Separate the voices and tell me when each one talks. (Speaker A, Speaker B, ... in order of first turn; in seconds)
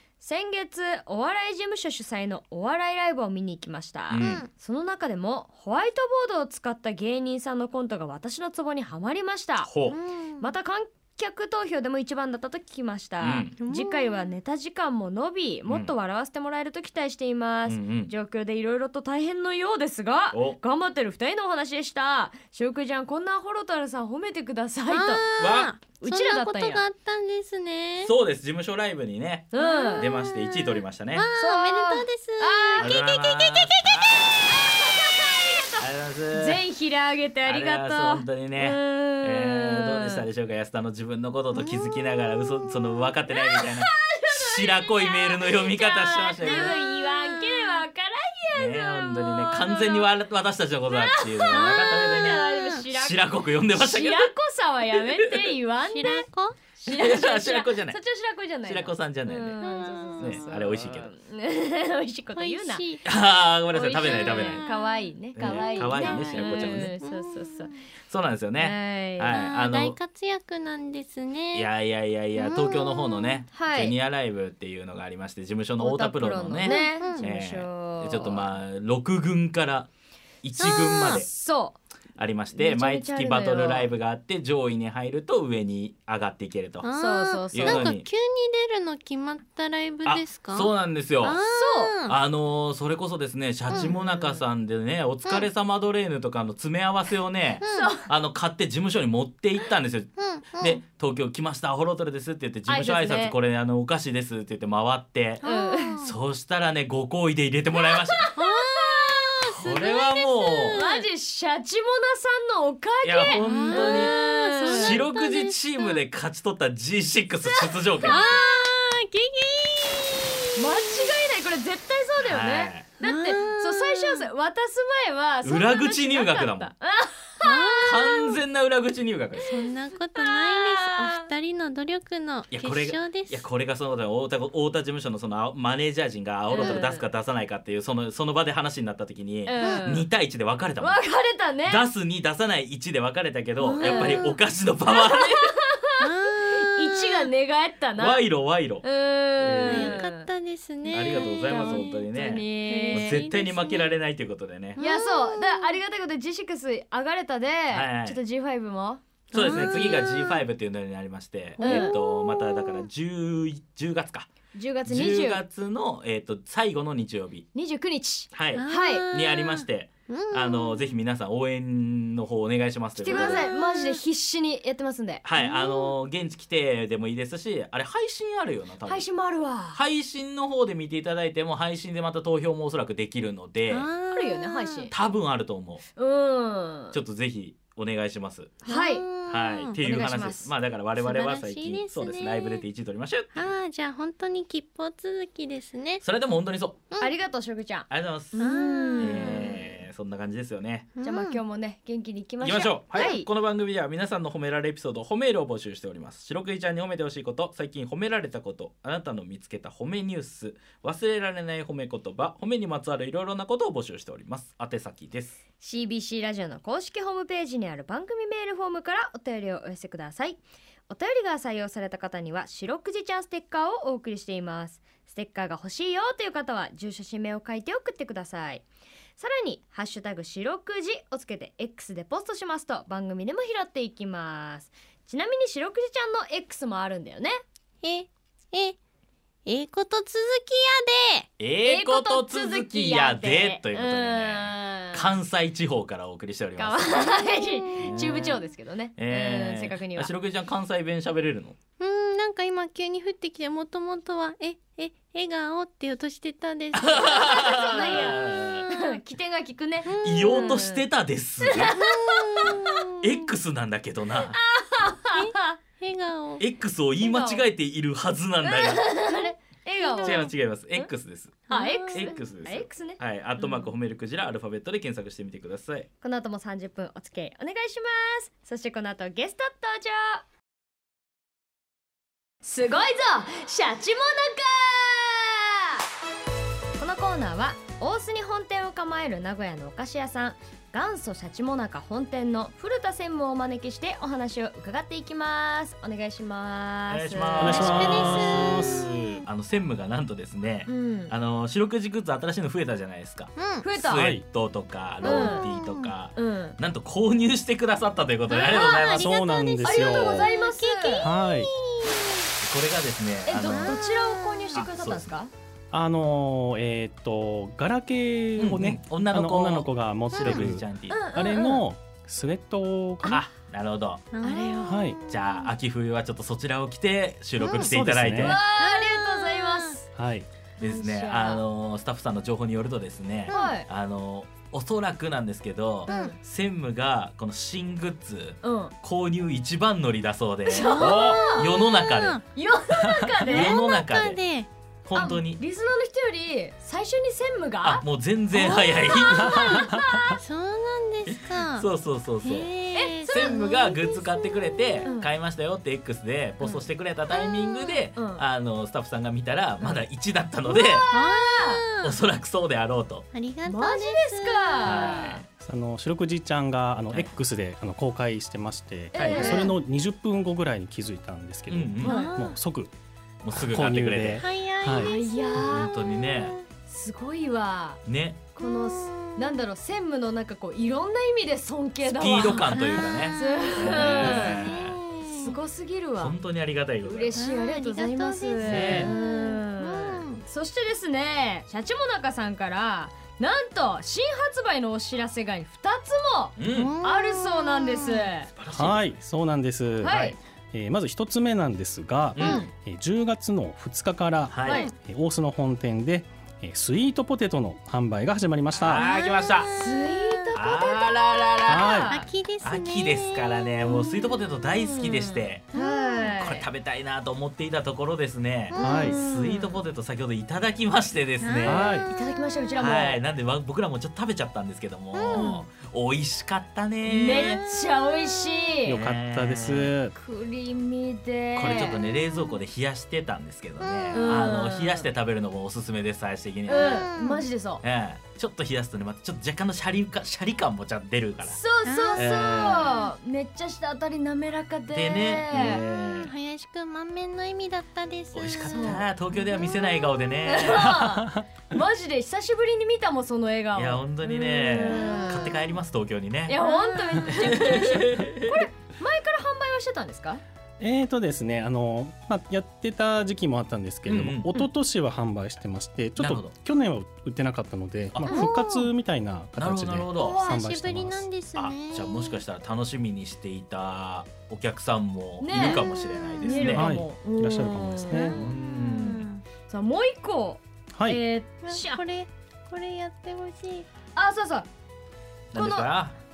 Speaker A: 0.2-9.7, 10.4-25.3, 26.0-26.8, 29.5-30.1, 31.4-32.9, 34.5-40.2, 43.3-50.1, 50.9-56.3, 56.8-62.8, 63.7-67.7, 68.6-69.4, 73.5-74.0, 75.8-78.5, 81.1-81.8, 82.5-83.9, 86.9-87.9, 91.5-91.9, 93.7-94.4, 97.7-98.1, 102.7-103.4, 105.4-106.0, 107.8-109.4, 110.8-115.0, 118.0-118.4, 120.6-128.3, 129.5-131.3, 136.5-137.0, 139.5-140.1, 140.8-141.8, 143.6-144.3, 144.9-148.2, 148.8-150.3, 150.9-153.3, 154.8-160.0, 161.6-162.0, 164.5-165.4, 167.5-169.1, 173.0-175.2, 178.9-179.8, 184.1-184.9, 186.0-187.0, 188.6-189.1, 189.8-190.5, 197.0-199.7, 201.0-203.3, 215.6-228.7, 229.2-237.4, 241.6-245.2, 246.6-250.1, 257.4-260.8, 261.4-262.7, 264.3-265.6, 267.0-267.4, 268.4-270.9, 271.5-273.7, 276.0-280.2, 282.4-285.8, 286.8-297.8, 300.7-301.1, 303.6-304.1, 305.0-305.5, 306.1-306.6, 309.6-311.1, 313.3-315.3, 320.9-321.6, 324.2-324.8, 328.2-329.9, 330.6-331.4, 333.3-333.7, 335.9-336.2, 338.4-338.7, 340.5-341.6, 342.3-343.6, 344.9-350.2, 352.7-353.4, 354.9-355.1, 356.4-356.7, 358.0-358.2, 360.5-361.6, 363.5-365.2, 368.9-369.6, 371.8-372.1, 374.7-375.7, 376.7-377.8, 378.4-384.5, 385.1-386.2, 386.8-398.3, 399.8-400.2, 402.2-402.5, 404.5-404.7, 409.5-412.1, 414.4-416.5, 418.6-419.6, 421.9-423.0, 425.1-425.5, 426.9-428.8, 429.9-432.0, 433.9-434.9, 436.5-437.6, 441.3-445.6, 448.5-448.9, 450.2-455.5, 456.3-460.2, 475.2-475.6, 476.2-478.3, 479.5-481.8, 483.9-484.5, 485.3-485.7
Speaker B: 4.1-4.4, 9.7-10.0, 13.2-13.6, 17.7-18.1, 20.3-20.6, 25.4-25.7, 28.0-31.3, 32.8-34.6, 35.8-36.6, 37.5-46.8, 48.5-54.3, 55.2-55.5, 56.9-58.0, 58.6-59.6, 60.2-61.1, 63.0-64.6, 65.4-66.9, 68.1-70.0, 71.5-79.9, 80.4-81.3, 82.2-86.9, 87.5-88.1, 90.1-91.4, 92.1-105.4, 106.0-108.3, 109.5-110.8, 113.0-118.4, 122.2-122.9, 125.4-126.7, 127.8-129.5, 132.5-141.0, 141.7-145.5, 148.0-148.8, 149.4-150.0, 150.9-154.8, 157.7-158.2, 159.3-164.3, 164.9-167.5, 168.3-173.4, 175.2-179.1, 179.7-183.9, 184.9-185.8, 186.9-188.6, 189.3-193.5, 196.0-196.8, 197.9-198.4, 199.0-200.9, 202.4-215.4, 241.4-247.1, 247.8-248.4, 249.0-251.6, 256.8-258.7, 260.0-261.8, 263.0-264.4, 266.4-268.9, 270.0-275.9, 296.9-309.1, 312.4-313.8, 314.6-315.1, 318.4-321.0, 323.0-324.0, 325.1-328.4, 330.6-342.2, 343.2-344.2, 344.9-345.4, 347.6-349.6, 351.1-352.5, 353.1-360.9, 361.8-363.1, 364.6-365.2, 369.0-369.5, 371.5-372.0, 373.2-374.2, 375.4-376.4, 377.9-378.2, 381.8-384.8, 386.0-387.2, 388.4-388.9, 396.4-396.8, 398.3-398.9, 399.9-400.1, 402.2-402.4, 404.3-404.6, 408.6-409.5, 410.4-411.8, 412.4-415.4, 416.2-421.7, 422.6-427.4, 428.7-429.7, 431.4-436.9, 437.6-441.4, 442.0-442.8, 444.7-446.1, 448.1-450.8, 453.6-456.4, 457.1-458.5, 463.9-464.5, 466.0-466.3, 467.9-468.2, 469.4-470.3, 471.4-476.7, 478.1-479.1, 485.3-486.0
Speaker C: 4.1-4.5, 9.9-10.5, 13.6-14.3, 24.9-28.1, 29.6-34.1, 46.4-47.8, 51.5-52.8, 55.9-56.6, 59.6-60.5, 62.4-63.0, 64.0-67.8, 69.3-71.7, 72.4-73.4, 76.6-77.2, 80.6-81.2, 86.8-92.2, 93.7-94.0, 97.6-97.9, 100.2-100.8, 105.4-106.1, 108.4-111.1, 113.2-116.0, 118.0-121.1, 123.0-124.3, 127.4-128.3, 129.5-133.4, 136.5-136.8, 143.7-144.4, 146.0-147.3, 149.7-152.0, 152.7-153.9, 154.8-155.8, 159.3-160.5, 161.6-162.9, 168.6-171.0, 173.1-174.0, 175.4-175.9, 183.7-184.9, 188.7-189.8, 191.0-192.7, 193.3-196.0, 198.4-199.6, 201.0-201.4, 237.8-238.8, 239.4-241.3, 247.2-248.3, 251.8-258.8, 259.9-260.7, 261.7-263.3, 265.1-266.4, 269.8-270.3, 271.5-272.1, 297.5-299.2, 303.4-303.6, 305.0-305.9, 308.3-312.3, 313.4-314.6, 324.1-325.5, 327.4-327.7, 328.6-329.8, 335.9-336.1, 340.7-342.2, 343.2-344.5, 348.5-351.7, 352.2-354.9, 357.1-357.8, 360.9-362.0, 363.1-365.1, 371.8-372.4, 374.2-376.4, 378.4-379.4, 382.2-385.4, 387.2-390.2, 396.5-398.1, 404.5-404.7, 408.7-410.3, 411.9-414.2, 415.5-416.1, 418.5-419.0, 421.2-421.8, 424.9-425.3, 427.1-427.4, 433.6-434.2, 436.5-437.2, 441.7-442.9, 445.9-450.2, 456.4-457.5, 468.1-468.7, 469.9-472.2, 475.3-476.5, 477.9-479.2, 481.4-483.7
Speaker D: 297.4-299.2, 303.9-304.2, 308.8-310.3, 311.0-311.5, 315.7-323.2, 324.7-325.0, 327.5-328.4, 329.9-330.3, 349.3-350.0, 365.4-372.7, 373.3-374.9, 388.5-388.8, 398.5-408.9, 411.5-411.9, 418.6-419.0, 421.4-421.9, 428.7-429.9, 450.7-451.3, 460.6-471.1, 476.6-478.2, 480.7-481.0